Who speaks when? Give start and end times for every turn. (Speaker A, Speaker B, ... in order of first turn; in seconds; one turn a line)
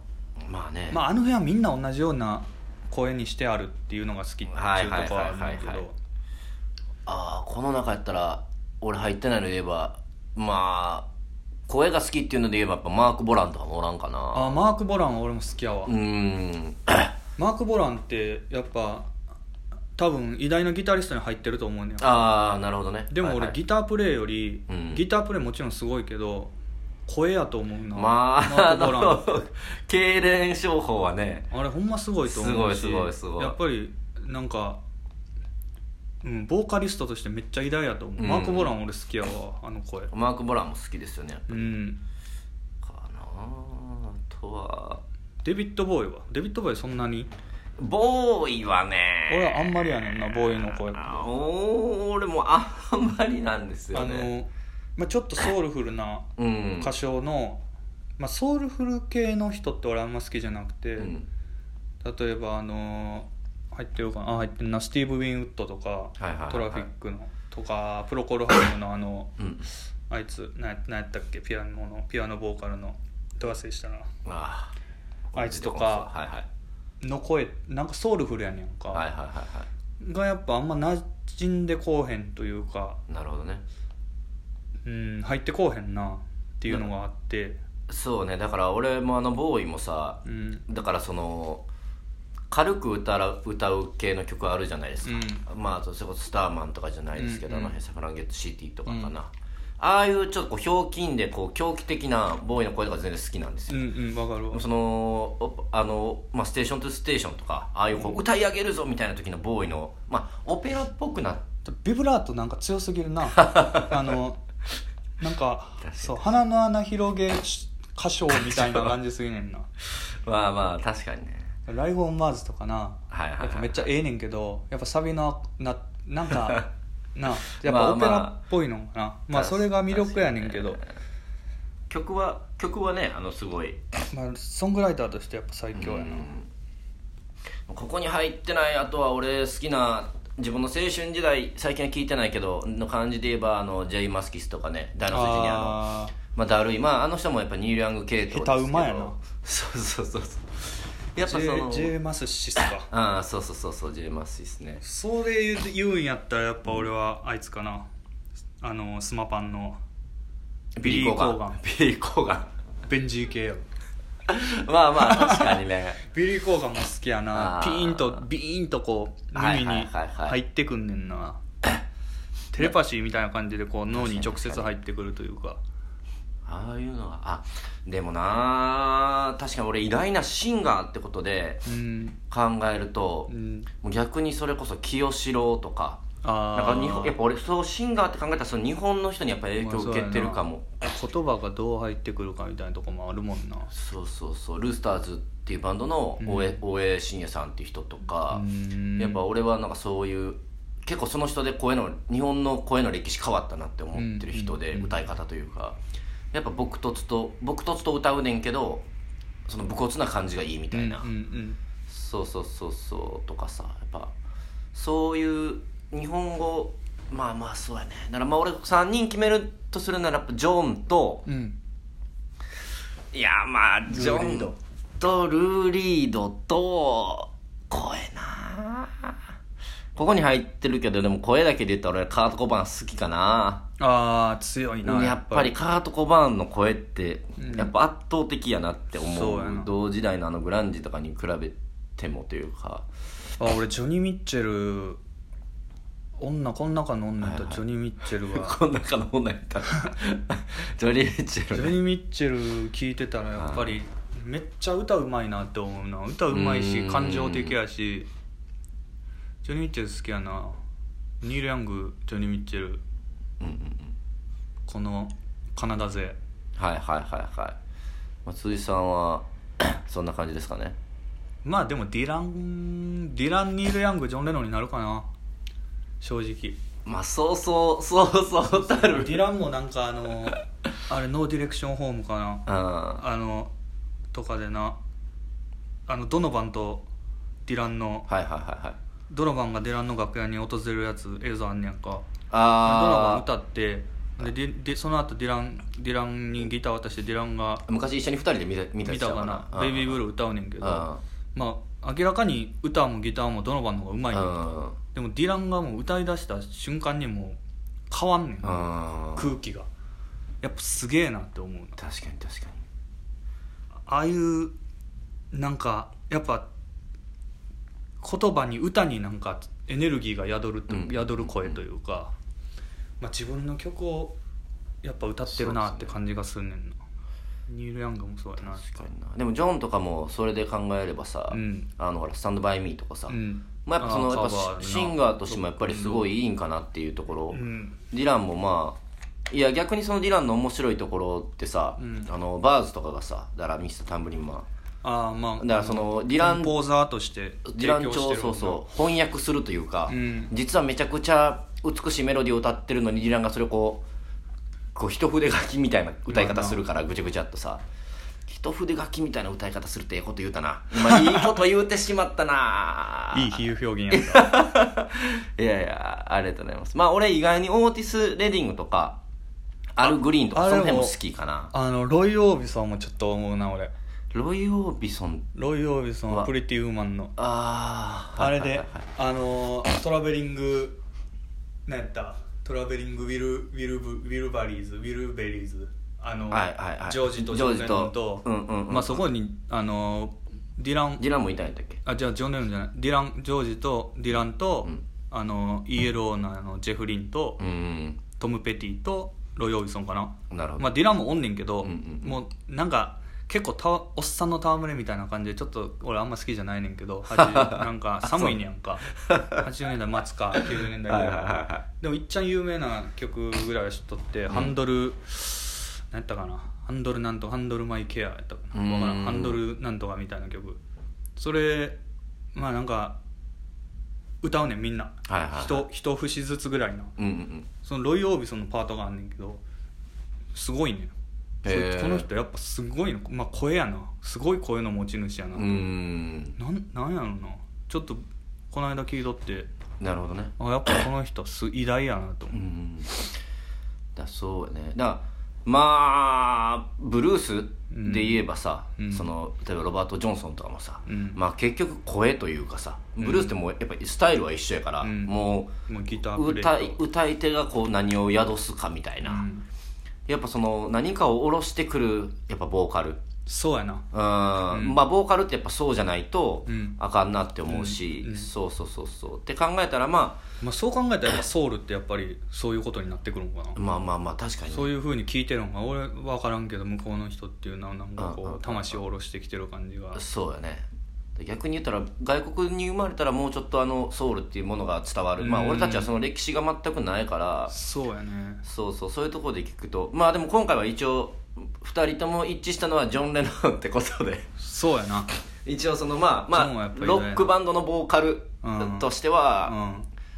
Speaker A: 0.4-1.0
Speaker B: 0.9-5.9
Speaker A: 4.5-5.8
Speaker A: 7.0-11.1
Speaker A: 11.7-14.6
Speaker B: 14.3-15.9
Speaker A: 15.8-17.1
Speaker B: 17.4-19.1
Speaker B: 20.0-22.3
Speaker A: 22.0-23.6
Speaker B: 23.1-26.5
Speaker A: 24.7-25.1
Speaker B: 27.1-29.2
Speaker A: 27.9-31.5
Speaker B: 31.5-34.8
Speaker A: 32.2-33.5
Speaker B: 36.2-40.1
Speaker A: 38.2-38.7
Speaker A: 40.1-41.7
Speaker B: 41.5-42.0
Speaker A: 42.8-45.0
Speaker B: 45.4-47.3
Speaker A: 47.8-54.3
Speaker B: 49.3-51.2
Speaker B: 53.9-56.2
Speaker A: 56.4-56.9
Speaker B: 56.8-57.6
Speaker B: 58.2-61.1
Speaker A: 61.0-61.3
Speaker B: 62.0-69.3
Speaker A: 66.2-66.9
Speaker A: 69.4-69.7
Speaker B: 70.1-74.1
Speaker A: 74.2-74.7
Speaker A: 75.3-76.5
Speaker B: 75.3-76.1
Speaker B: 77.0-79.0
Speaker A: 78.9-79.7
Speaker B: 80.0-83.0
Speaker A: 83.1-83.6
Speaker B: 84.8-87.6
Speaker A: 87.9-91.7
Speaker B: 90.2-90.6
Speaker A: 92.5-103.9
Speaker B: 95.0-95.4
Speaker B: 97.1-97.7
Speaker B: 98.8-99.1
Speaker B: 103.7-104.6
Speaker A: 104.5-111.4
Speaker B: 107.9-108.2
Speaker B: 111.6-114.4
Speaker A: 113.4-114.1
Speaker B: 115.2-119.7
Speaker A: 115.8-116.4
Speaker A: 118.3-118.9
Speaker A: 120.2-121.5
Speaker B: 121.7-130.8
Speaker A: 123.1-123.9
Speaker A: 127.6-128.4
Speaker A: 129.3-130.8
Speaker A: 131.9-133.8
Speaker B: 134.1-136.3
Speaker A: 135.7-136.5
Speaker A: 137.7-145.8
Speaker B: 145.1-146.1
Speaker A: 146.3-151.9
Speaker B: 148.3-149.2
Speaker B: 151.2-152.9
Speaker A: 152.6-154.8
Speaker B: 154.8-157.8
Speaker B: 158.6-159.8
Speaker A: 160.8-162.5
Speaker B: 160.8-161.6
Speaker B: 162.9-163.6
Speaker A: 164.3-166.0
Speaker B: 165.0-165.5
Speaker B: 166.1-171.4
Speaker A: 167.3-168.2
Speaker A: 169.3-170.4
Speaker B: 172.5-175.6
Speaker A: 173.9-174.7
Speaker A: 176.4-181.6
Speaker B: 181.7-182.2
Speaker A: 182.3-183.3
Speaker B: 183.3-183.7
Speaker A: 183.8-186.0
Speaker B: 186.2-187.2
Speaker A: 186.5-190.8
Speaker B: 189.6-193.7
Speaker A: 193.7-198.4
Speaker B: 196.2-196.6
Speaker B: 198.3-199.2
Speaker A: 199.0-205.8
Speaker B: 203.9-205.0
Speaker A: 206.3-208.9
Speaker A: 209.5-211.1
Speaker B: 210.7-211.6
Speaker A: 211.9-214.1
Speaker A: 214.7-221.2
Speaker B: 221.2-221.6
Speaker A: 223.1-229.2
Speaker B: 223.9-224.6
Speaker A: 229.9-233.6
Speaker B: 233.8-235.5
Speaker A: 234.8-242.8
Speaker B: 237.4-237.7
Speaker B: 239.0-239.7
Speaker B: 243.4-245.0
Speaker B: 246.2-248.6
Speaker A: 247.2-247.6
Speaker A: 248.2-251.8
Speaker B: 251.5-258.1
Speaker A: 253.4-253.8
Speaker A: 256.3-257.6
Speaker B: 259.4-260.6
Speaker B: 261.2-262.8
Speaker A: 263.4-263.9
Speaker B: 264.7-266.2
Speaker A: 266.6-267.6
Speaker A: 268.2-270.8
Speaker B: 271.4-275.1
Speaker B: 276.0-276.6
Speaker A: 276.8-279.3
Speaker B: 278.5-283.5
Speaker A: 282.4-283.0
Speaker B: 284.1-284.8
Speaker B: 285.9-286.9
Speaker B: 287.4-288.1
Speaker A: 288.1-288.8
Speaker B: 289.1-292.0
Speaker A: 292.3-293.2
Speaker B: 292.6-297.6
Speaker A: 297.6-300.0
Speaker B: 298.9-304.4
Speaker A: 300.6-301.0
Speaker A: 304.1-304.8
Speaker B: 304.9-307.4
Speaker B: 307.9-309.7
Speaker A: 308.4-309.3
Speaker B: 310.4-311.8
Speaker A: 311.8-312.6
Speaker B: 313.9-314.5
Speaker B: 315.3-316.4
Speaker B: 318.0-322.1
Speaker A: 320.7-321.6
Speaker B: 323.0-324.1
Speaker B: 324.8-326.8
Speaker A: 325.3-326.0
Speaker B: 327.5-328.6
Speaker A: 328.4-337.4
Speaker B: 331.3-331.7
Speaker B: 333.1-336.1
Speaker B: 337.3-337.8
Speaker A: 337.9-338.8
Speaker A: 339.3-344.4
Speaker B: 341.8-342.1
Speaker B: 344.8-348.6
Speaker A: 345.4-346.6
Speaker A: 347.5-353.8
Speaker B: 349.9-350.3
Speaker A: 354.7-357.6
Speaker B: 356.1-356.6
Speaker A: 358.3-363.4
Speaker B: 363.1-364.3
Speaker A: 363.9-369.0
Speaker A: 369.7-371.5
Speaker B: 369.8-370.9
Speaker B: 371.5-373.7
Speaker A: 374.1-375.3
Speaker B: 375.3-377.1
Speaker A: 377.2-378.9
Speaker B: 378.1-380.8
Speaker B: 381.7-391.0
Speaker A: 386.3-389.1
Speaker A: 391.0-391.8
Speaker B: 391.8-397.4
Speaker A: 397.4-398.0
Speaker B: 398.2-420.6
Speaker A: 400.3-400.8
Speaker A: 401.6-402.2
Speaker A: 407.1-408.4
Speaker A: 409.0-409.4
Speaker A: 410.8-411.6
Speaker A: 414.3-414.5
Speaker A: 418.5-419.4
Speaker B: 421.1-421.8
Speaker B: 422.3-423.0
Speaker B: 424.2-426.9
Speaker A: 425.1-425.6
Speaker A: 427.0-427.5
Speaker B: 427.6-429.4
Speaker B: 430.3-430.9
Speaker A: 431.4-432.1
Speaker B: 431.4-435.6
Speaker A: 435.3-436.4
Speaker B: 436.4-439.5
Speaker A: 439.8-440.3
Speaker B: 440.4-442.4
Speaker A: 442.3-443.1
Speaker A: 443.9-455.5
Speaker B: 447.7-448.2
Speaker B: 448.8-449.1
Speaker B: 450.9-451.2
Speaker B: 453.0-453.4
Speaker B: 454.8-456.8
Speaker A: 456.1-459.3
Speaker B: 459.0-459.4
Speaker A: 460.1-463.0
Speaker B: 463.2-463.9
Speaker A: 463.9-470.2
Speaker B: 464.5-464.8
Speaker B: 466.5-466.8
Speaker B: 467.4-468.3
Speaker B: 470.4-473.6
Speaker A: 473.5-474.7
Speaker B: 474.5-480.0
Speaker A: 478.0-478.8
Speaker A: 479.9-487.5
Speaker B: 485.2-485.9
Speaker B: 487.5-488.4
Speaker A: 488.4-494.2
Speaker B: 494.4-495.1
Speaker A: 495.4-499.6
Speaker B: 496.3-497.3
Speaker B: 498.4-498.9
Speaker B: 499.4-499.9